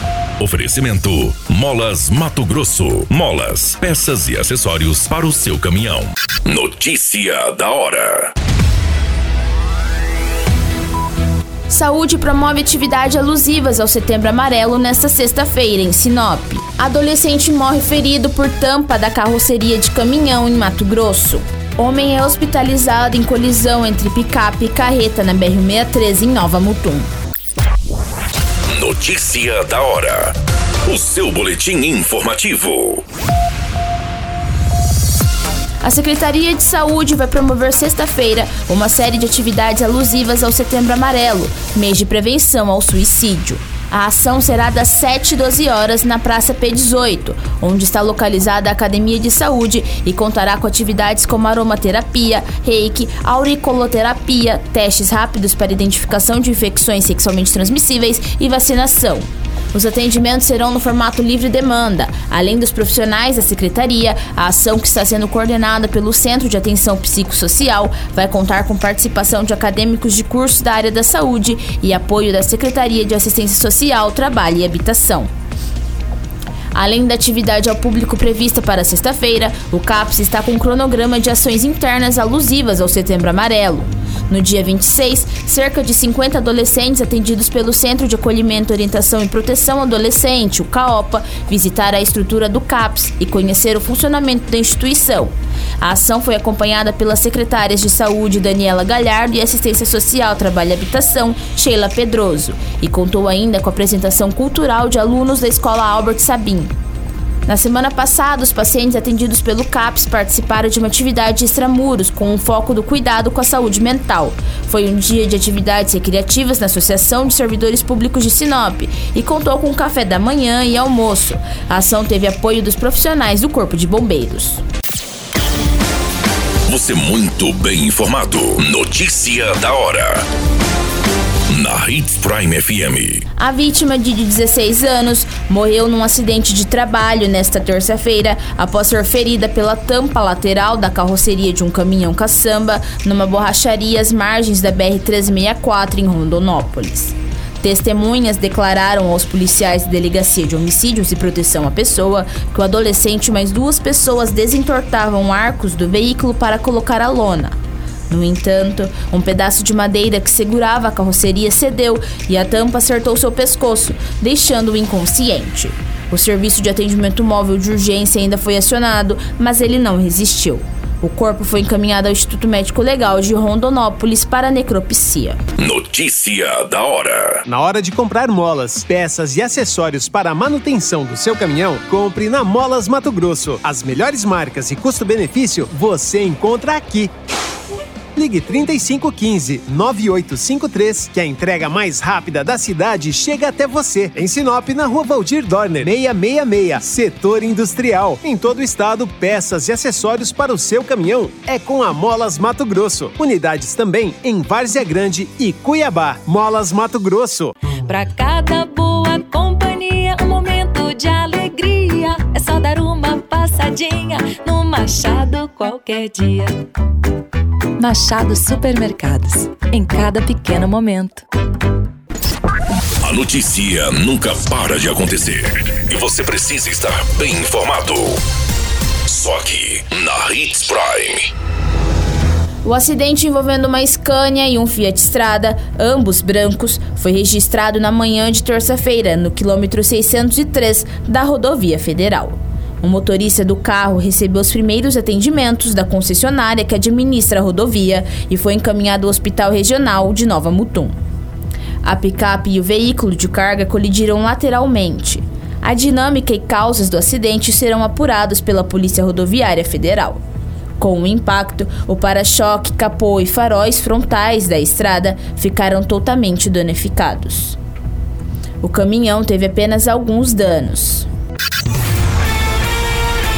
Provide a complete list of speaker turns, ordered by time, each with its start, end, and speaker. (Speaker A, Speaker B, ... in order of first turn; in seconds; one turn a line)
Speaker A: 0.4-8.3
Speaker B: 11.7-27.1
Speaker A: 28.7-33.0
Speaker B: 35.8-75.3
Speaker B: 76.7-106.7
Speaker B: 107.5-124.6
Speaker A: 126.7-130.2
Speaker A: 131.5-133.2
Speaker B: 133.4-157.5
Speaker B: 158.1-175.4
Speaker A: 175.6-177.4
Speaker C: 177.4-187.1
Speaker C: 188.1-207.5
Speaker D: 207.8-216.6
Speaker D: 217.8-221.2
Speaker A: 223.0-228.2
Speaker A: 229.1-231.3
Speaker B: 232.6-250.9
Speaker B: 251.8-260.2
Speaker B: 260.8-267.6
Speaker B: 268.6-271.1